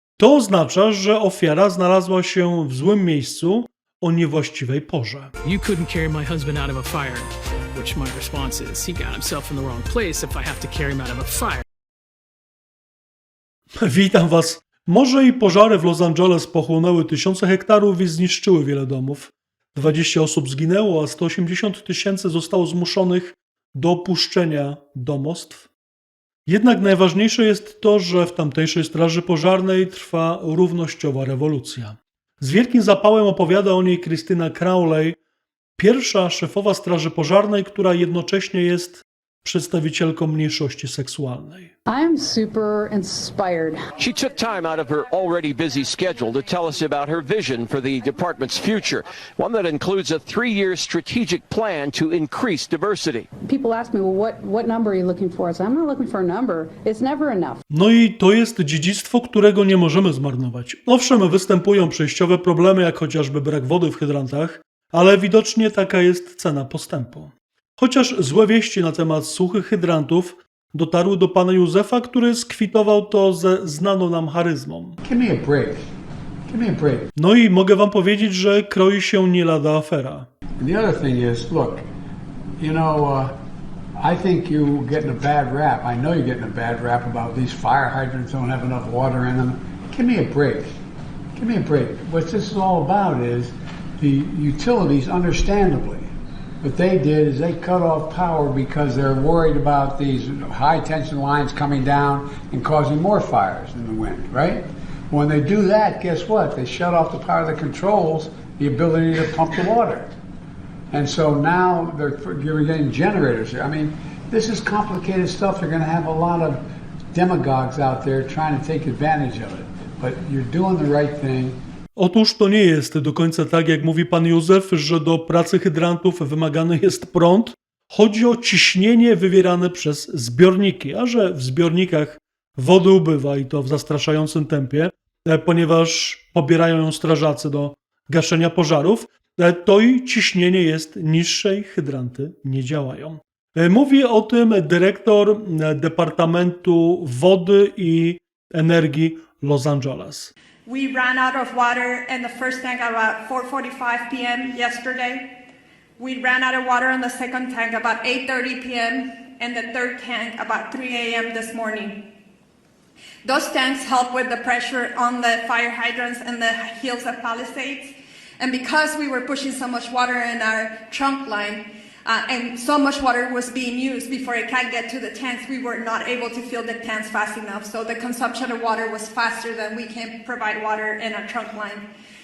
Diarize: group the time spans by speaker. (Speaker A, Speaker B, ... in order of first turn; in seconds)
Speaker A: 0.2-5.3, 13.8-25.7, 26.4-35.2, 35.8-41.7, 57.7-75.0, 77.2-80.3, 122.0-150.3
Speaker B: 5.4-11.6
Speaker C: 41.9-43.9, 53.4-57.6
Speaker D: 44.0-53.3
Speaker E: 75.0-75.8, 76.5-77.1, 80.6-81.8, 82.6-83.3, 84.0-90.7, 91.3-96.1, 96.6-110.1, 110.9-116.6, 117.1-121.6
Speaker F: 150.7-155.3, 156.0-162.0, 163.2-181.8